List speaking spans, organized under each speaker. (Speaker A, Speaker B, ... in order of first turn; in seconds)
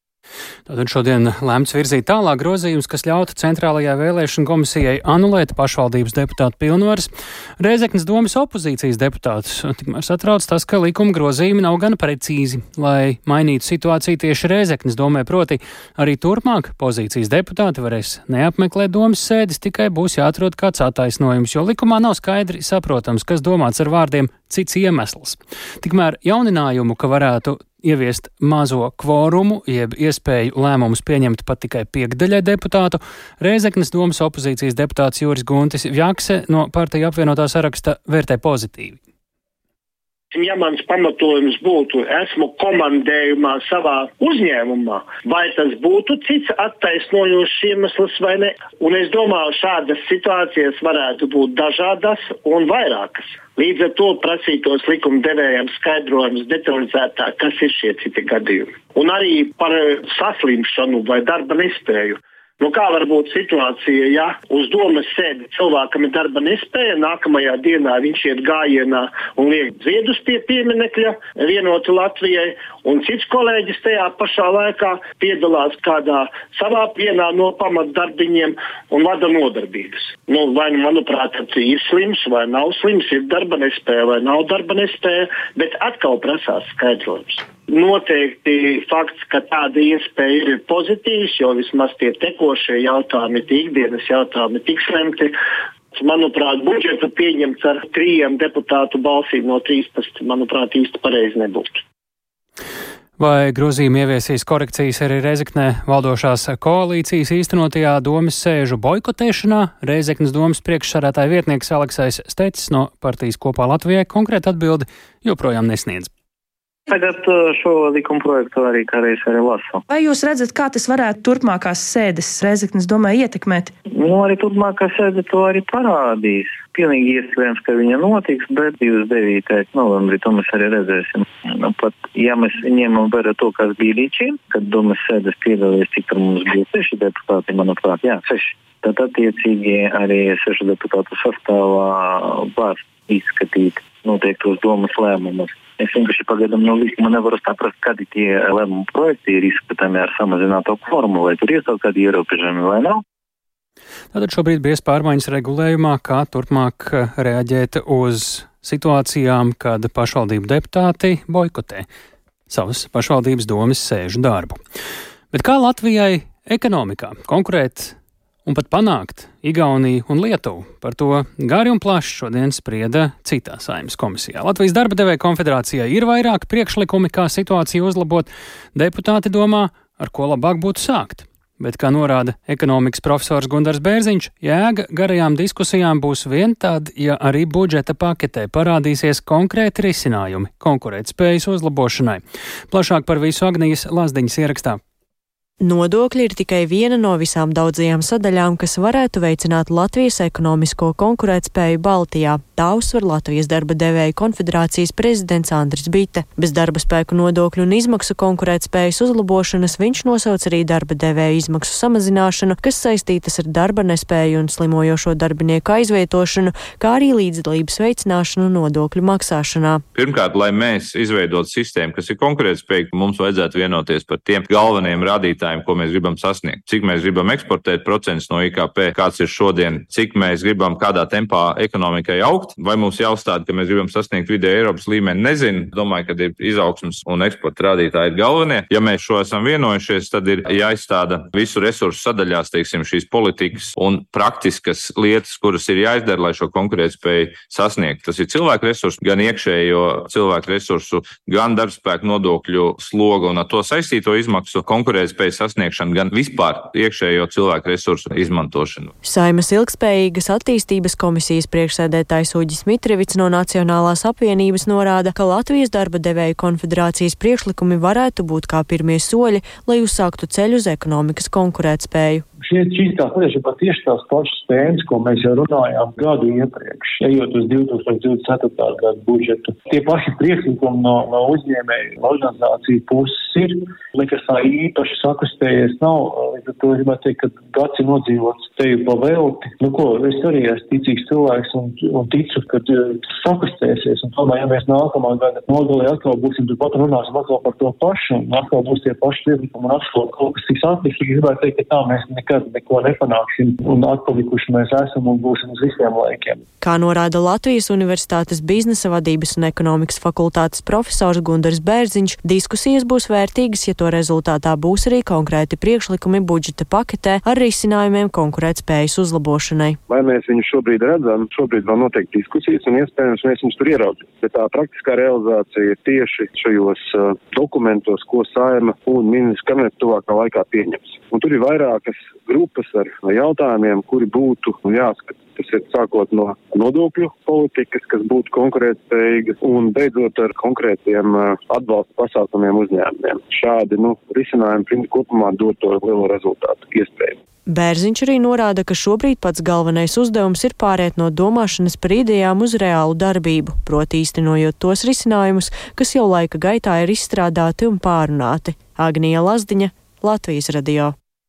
Speaker A: 0.7-39.0, 103.2-116.1, 154.1-161.8, 162.5-164.6, 165.3-194.8
Speaker B: 40.3-95.3, 95.9-101.8
Speaker C: 116.9-119.8, 123.9-153.0
Speaker D: 119.9-123.7
Speaker E: 195.6-219.8, 259.0-272.2, 306.6-319.8, 347.5-360.9
Speaker F: 219.9-258.9
Speaker G: 272.4-306.4
Speaker H: 319.9-347.2